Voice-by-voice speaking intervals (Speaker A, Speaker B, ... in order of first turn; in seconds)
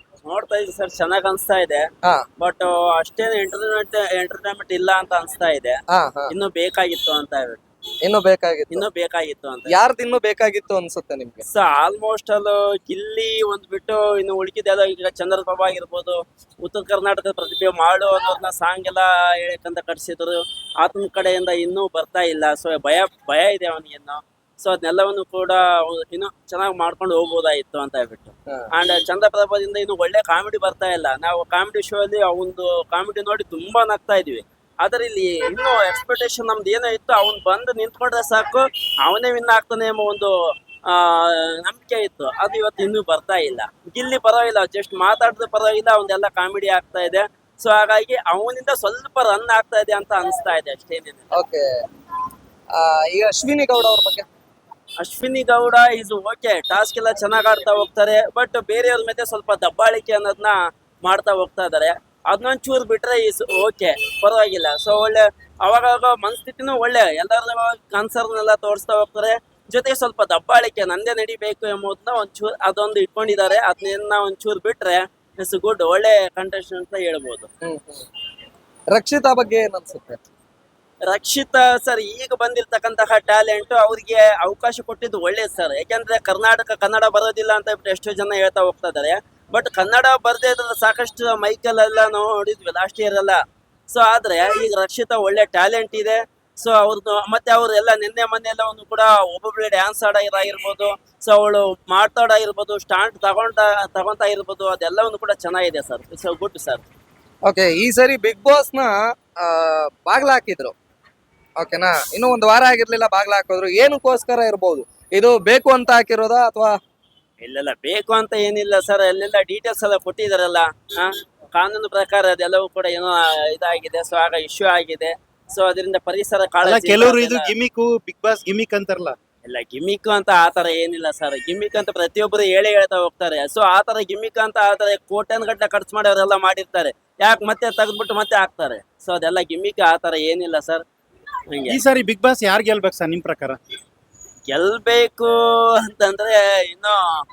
Speaker A: 0.3-1.9, 2.4-5.8, 6.3-7.7, 8.7-9.8, 11.5-40.4, 40.9-51.3, 55.0-77.5, 81.1-106.9, 117.4-127.5, 129.4-140.8, 141.5-141.8, 144.5-147.0
Speaker B: 5.9-6.3, 8.0-8.8, 9.7-11.4, 51.3-51.6, 52.7-54.3, 77.6-78.1, 78.9-80.2, 107.5-110.7, 111.6-116.8
Speaker C: 126.6-129.2, 141.7-143.6